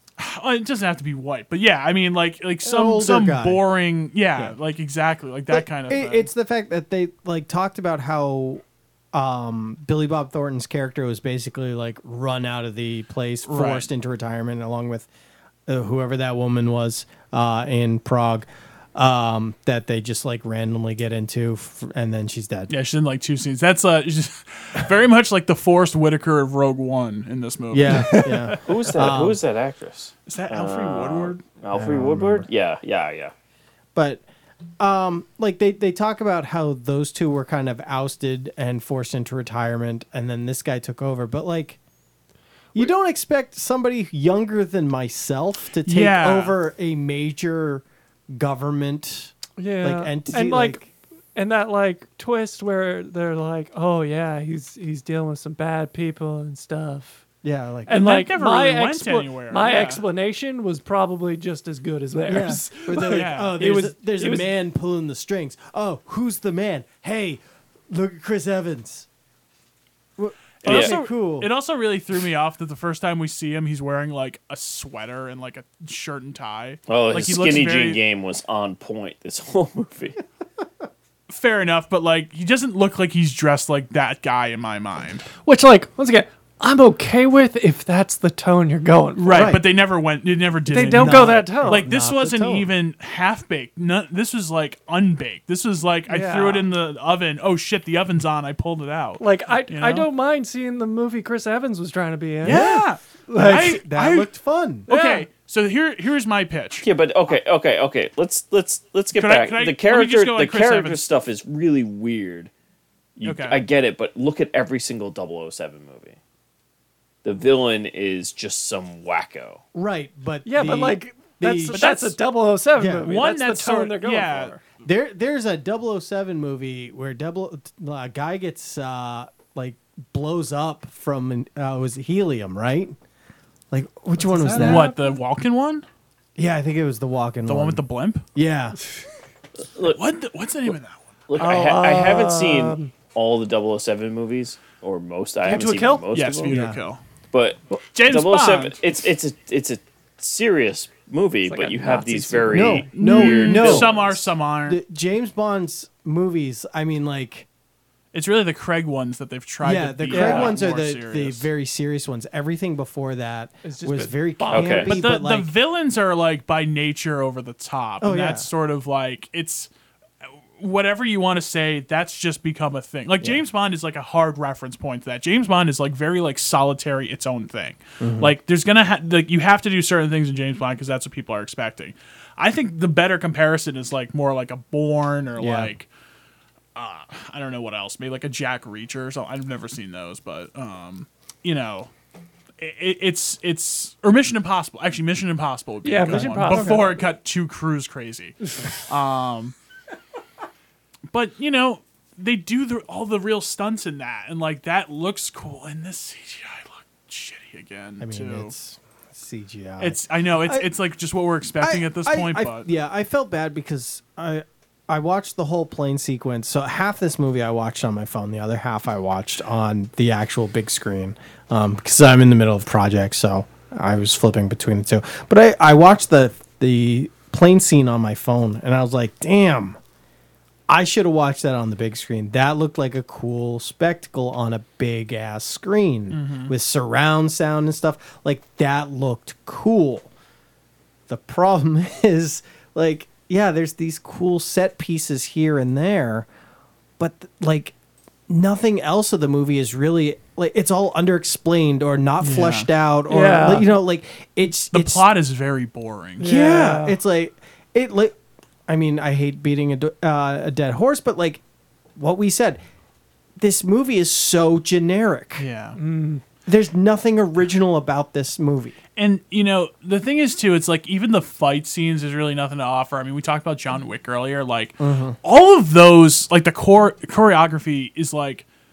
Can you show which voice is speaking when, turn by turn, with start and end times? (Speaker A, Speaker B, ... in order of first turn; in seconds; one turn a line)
Speaker A: 0.2-6.3
Speaker B: 2.6-3.6
Speaker B: 5.5-15.1
Speaker A: 13.5-13.9
Speaker B: 15.7-22.7
Speaker A: 22.7-28.5
Speaker B: 27.7-29.4
Speaker C: 28.6-33.3
Speaker A: 30.3-31.4
Speaker B: 31.7-32.5
Speaker B: 34.0-34.2
Speaker B: 34.8-41.8
Speaker B: 42.7-50.9
Speaker A: 45.9-46.5
Speaker D: 49.6-57.2
Speaker B: 57.4-58.0
Speaker D: 57.9-64.5
Speaker A: 57.9-60.0
Speaker B: 62.3-69.1
Speaker A: 63.0-63.5
Speaker B: 70.2-71.5
Speaker A: 70.6-78.0
Speaker C: 70.7-71.0
Speaker C: 76.9-80.2
Speaker A: 81.3-85.3
Speaker D: 85.4-89.5
Speaker A: 89.2-100.1
Speaker B: 89.3-89.6
Speaker D: 90.7-91.8
Speaker B: 90.8-92.7
Speaker D: 96.1-96.7
Speaker D: 99.2-102.7
Speaker A: 102.4-104.3
Speaker B: 102.4-104.9
Speaker D: 103.3-103.7
Speaker A: 104.9-106.9
Speaker D: 104.9-105.3
Speaker C: 106.8-112.5
Speaker A: 109.2-111.0
Speaker C: 113.2-116.2
Speaker A: 113.2-113.6
Speaker C: 117.2-119.6
Speaker B: 119.7-121.8
Speaker D: 120.5-124.6
Speaker A: 121.7-122.2
Speaker B: 122.8-123.1
Speaker A: 123.0-124.6
Speaker B: 124.8-133.0
Speaker B: 133.7-134.9
Speaker D: 134.2-135.0
Speaker A: 134.5-135.8
Speaker B: 136.4-137.8
Speaker A: 137.5-138.2
Speaker B: 138.3-138.8
Speaker C: 139.6-140.0
Speaker A: 139.9-141.0
Speaker C: 141.3-146.5
Speaker D: 141.4-142.9
Speaker D: 145.4-146.5
Speaker A: 146.1-147.0
Speaker B: 146.5-146.8
Speaker C: 147.3-153.9
Speaker A: 147.9-148.8
Speaker D: 151.5-153.7
Speaker B: 152.5-157.5
Speaker A: 153.0-154.8
Speaker A: 158.1-161.5
Speaker B: 159.6-165.5
Speaker D: 160.1-160.6
Speaker D: 163.6-165.0
Speaker C: 164.5-164.9
Speaker A: 164.9-169.7
Speaker B: 168.0-168.5
Speaker A: 170.2-185.9
Speaker B: 178.0-178.3
Speaker B: 185.4-185.7
Speaker A: 186.8-191.9
Speaker A: 192.6-199.6
Speaker D: 195.8-197.0
Speaker B: 196.1-196.8
Speaker A: 201.1-208.5
Speaker B: 208.0-210.7
Speaker A: 209.8-212.7
Speaker B: 211.6-229.8
Speaker B: 230.7-240.1
Speaker A: 236.1-236.5
Speaker B: 241.1-246.3
Speaker B: 247.0-247.8
Speaker B: 248.3-255.1
Speaker A: 252.2-252.7
Speaker D: 253.1-253.7
Speaker A: 254.7-256.3
Speaker D: 256.2-257.0
Speaker B: 256.2-258.2
Speaker B: 258.7-261.4
Speaker B: 262.0-262.6
Speaker B: 263.4-265.5
Speaker A: 265.4-265.8
Speaker D: 265.8-266.2
Speaker B: 266.5-268.8
Speaker A: 269.0-278.4
Speaker B: 274.8-275.2